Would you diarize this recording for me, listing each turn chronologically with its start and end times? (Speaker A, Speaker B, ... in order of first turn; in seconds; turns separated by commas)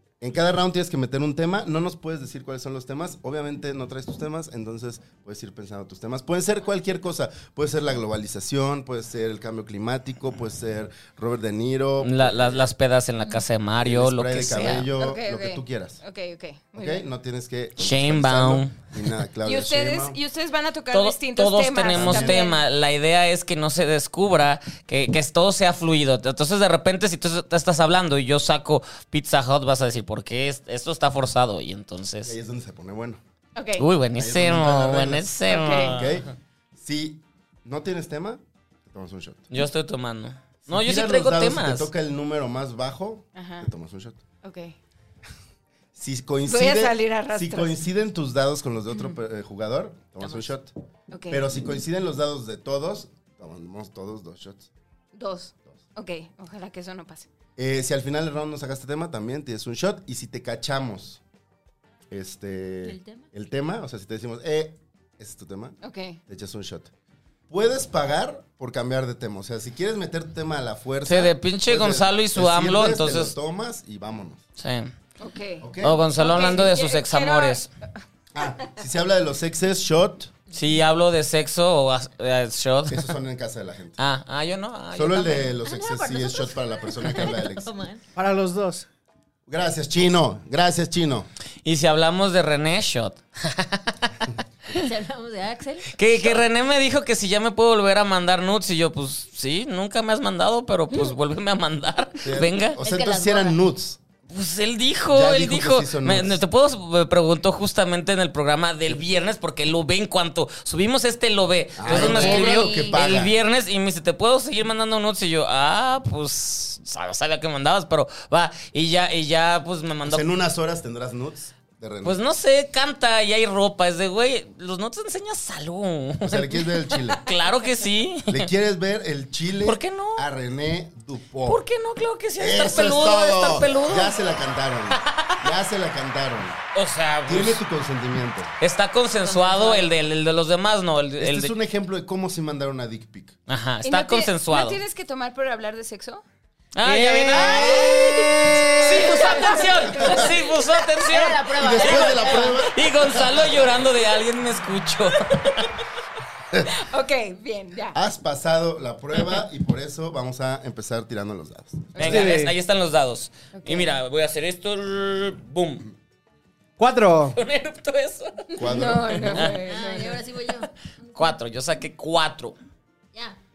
Speaker A: 0.2-12.7, Speaker B: 12.0-14.9, Speaker A: 13.8-16.0, Speaker C: 15.0-17.0, Speaker A: 16.8-20.2, Speaker B: 17.8-18.8, Speaker C: 19.4-22.6, Speaker B: 20.9-32.4, Speaker A: 21.9-22.4, Speaker A: 32.2-33.2, Speaker C: 33.6-33.9, Speaker B: 33.8-36.3, Speaker A: 34.2-39.5, Speaker C: 35.5-36.0, Speaker B: 39.5-41.9, Speaker A: 40.7-44.2, Speaker C: 43.4-43.7, Speaker C: 44.4-44.8, Speaker A: 46.0-50.7, Speaker C: 46.5-47.8, Speaker C: 51.1-51.4, Speaker A: 51.3-54.7, Speaker C: 55.1-57.3, Speaker A: 57.6-61.2, Speaker A: 62.1-66.9, Speaker D: 62.8-63.3, Speaker C: 65.8-66.2, Speaker A: 67.5-74.4, Speaker B: 71.1-73.3, Speaker B: 74.6-74.9, Speaker C: 75.2-77.6, Speaker A: 75.6-76.1, Speaker B: 75.8-77.7, Speaker A: 78.3-80.3, Speaker B: 80.5-83.1, Speaker A: 82.9-84.0, Speaker B: 84.0-85.5, Speaker A: 84.9-87.7, Speaker D: 85.6-88.0, Speaker E: 88.2-88.9, Speaker A: 89.5-91.3, Speaker B: 91.7-94.1, Speaker D: 94.7-95.9, Speaker B: 95.9-102.8, Speaker A: 102.2-104.0, Speaker D: 102.8-103.6, Speaker B: 104.3-120.3, Speaker A: 105.1-106.4, Speaker A: 111.8-113.4, Speaker D: 111.8-113.0, Speaker A: 120.0-122.2, Speaker B: 122.0-128.5, Speaker A: 126.2-127.2, Speaker A: 128.3-131.6, Speaker B: 129.6-130.2, Speaker B: 131.4-134.2, Speaker A: 132.4-136.6, Speaker B: 134.9-135.4, Speaker B: 136.7-137.6, Speaker A: 137.3-138.5, Speaker B: 138.6-141.5, Speaker C: 139.3-139.9, Speaker A: 141.2-143.3, Speaker B: 143.5-144.8, Speaker C: 143.8-146.2, Speaker B: 146.8-155.7, Speaker E: 146.8-149.4, Speaker C: 147.4-150.9, Speaker D: 151.1-152.6, Speaker A: 151.6-153.9, Speaker A: 156.5-156.8, Speaker C: 156.7-157.9, Speaker A: 157.9-162.3, Speaker C: 161.9-162.3, Speaker B: 162.0-165.9, Speaker E: 162.0-162.5, Speaker C: 163.5-163.9, Speaker E: 166.8-167.4, Speaker B: 167.3-169.5, Speaker A: 168.6-169.4, Speaker C: 168.6-170.2, Speaker D: 169.4-171.4, Speaker B: 171.2-172.6